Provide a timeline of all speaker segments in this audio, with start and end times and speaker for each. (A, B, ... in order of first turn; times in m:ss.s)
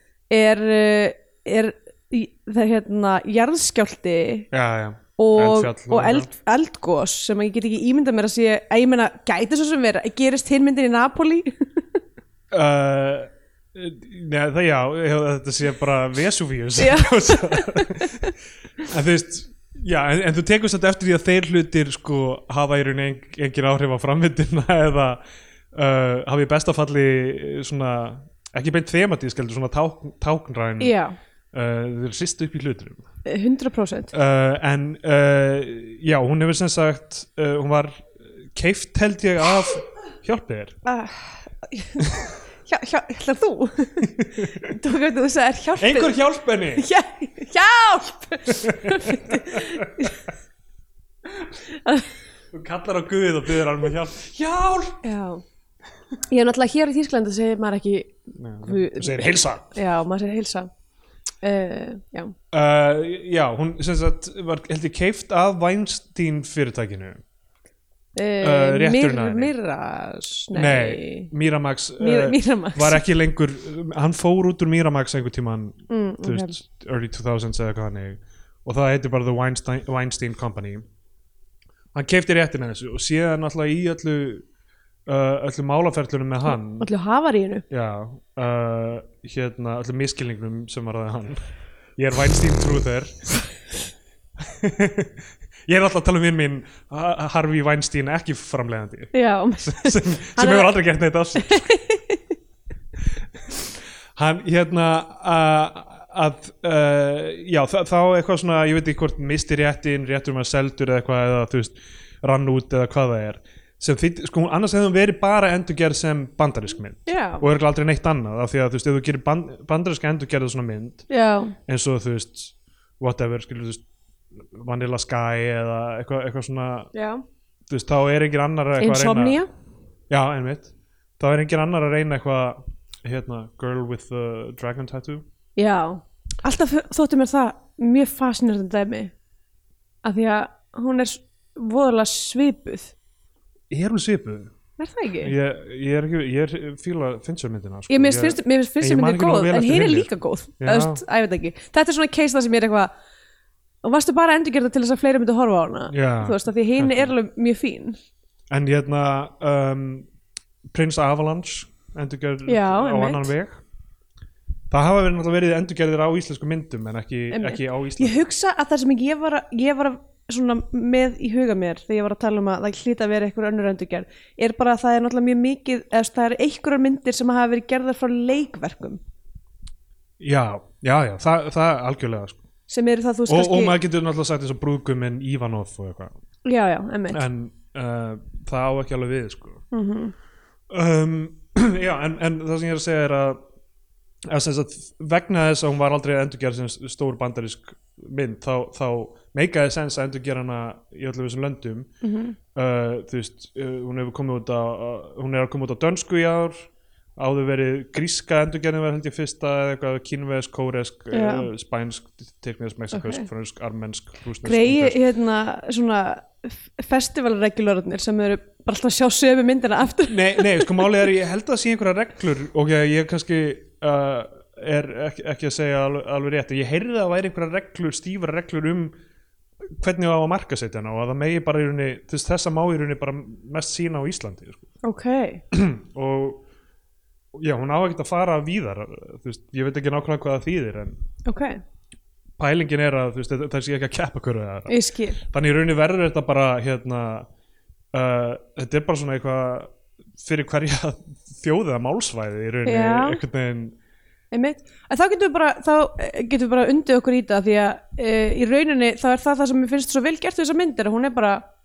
0:00.3-0:04.5 A
0:04.5-0:06.3 B
0:05.2-0:11.8 A
0:12.5-0:18.3 B
0:16.8-0:18.2 A
0:18.9-0:25.2 B
0:25.7-0:30.9 B
0:30.8-0:31.1 A
0:31.5-0:33.0 B
0:33.2-0:34.1 A
0:34.1-0:40.8 B
0:40.8-0:42.0 A
0:42.6-0:44.1 A
0:44.0-0:44.7 B
0:44.6-0:46.1 A
0:45.8-0:46.8 B
0:46.7-0:50.2 A
0:48.5-0:50.1 B
0:51.6-0:52.1 A
0:52.5-0:55.0 B
0:55.0-0:55.4 A
0:56.3-1:00.7 A
0:58.3-0:59.8 B
1:01.4-1:02.3 A
1:02.5-1:07.2 B
1:08.2-1:11.3 A
1:08.4-1:09.5 B
1:10.5-1:20.8 B
1:12.0-1:13.0 A
1:15.9-1:16.6 A
1:21.9-1:24.4 B
1:25.1-1:26.9 B
1:26.4-1:27.6 A
1:27.7-1:31.4 B
1:32.0-1:33.3 B
1:34.4-1:41.7 B
1:39.1-1:40.7 A
1:41.4-1:42.2 A
1:44.1-2:01.0 B
1:57.1-1:57.4 A
2:01.1-2:01.5 A
2:01.7-2:03.8 B
2:04.4-2:06.9 B
2:06.9-2:07.2 A
2:07.7-2:09.4 B
2:08.8-2:09.5 A
2:10.1-2:15.2 B
2:15.6-2:19.1 A
2:20.0-2:22.9 A
2:23.7-2:24.5 B
2:24.8-2:25.3 A
2:25.2-2:30.1 B
2:27.9-2:32.9 A
2:30.6-2:31.0 B
2:33.8-2:38.0 A
2:35.9-2:37.1 B
2:38.5-2:40.1 B
2:40.7-2:43.6 B
2:42.5-2:43.3 A
2:44.7-2:48.2 B
2:47.3-2:59.0 A
3:00.2-3:02.4 B
3:02.7-3:03.8 A
3:03.3-3:06.1 B
3:06.4-3:07.2 A
3:07.1-3:09.6 B
3:09.7-3:10.1 A
3:10.7-3:13.4 B
3:14.3-3:21.9 B
3:22.0-3:22.4 A
3:22.5-3:35.0 B
3:31.1-3:31.5 A
3:32.9-3:33.3 A
3:34.4-3:40.9 A
3:40.1-3:48.9 B
3:49.8-3:54.7 B
3:54.8-3:55.4 A
3:55.5-3:56.4 B
3:57.3-4:01.0 B
4:01.2-4:01.6 A
4:02.4-4:07.3 B
4:04.7-4:05.2 A
4:07.9-4:13.8 B
4:12.6-4:13.2 A
4:14.3-4:21.4 A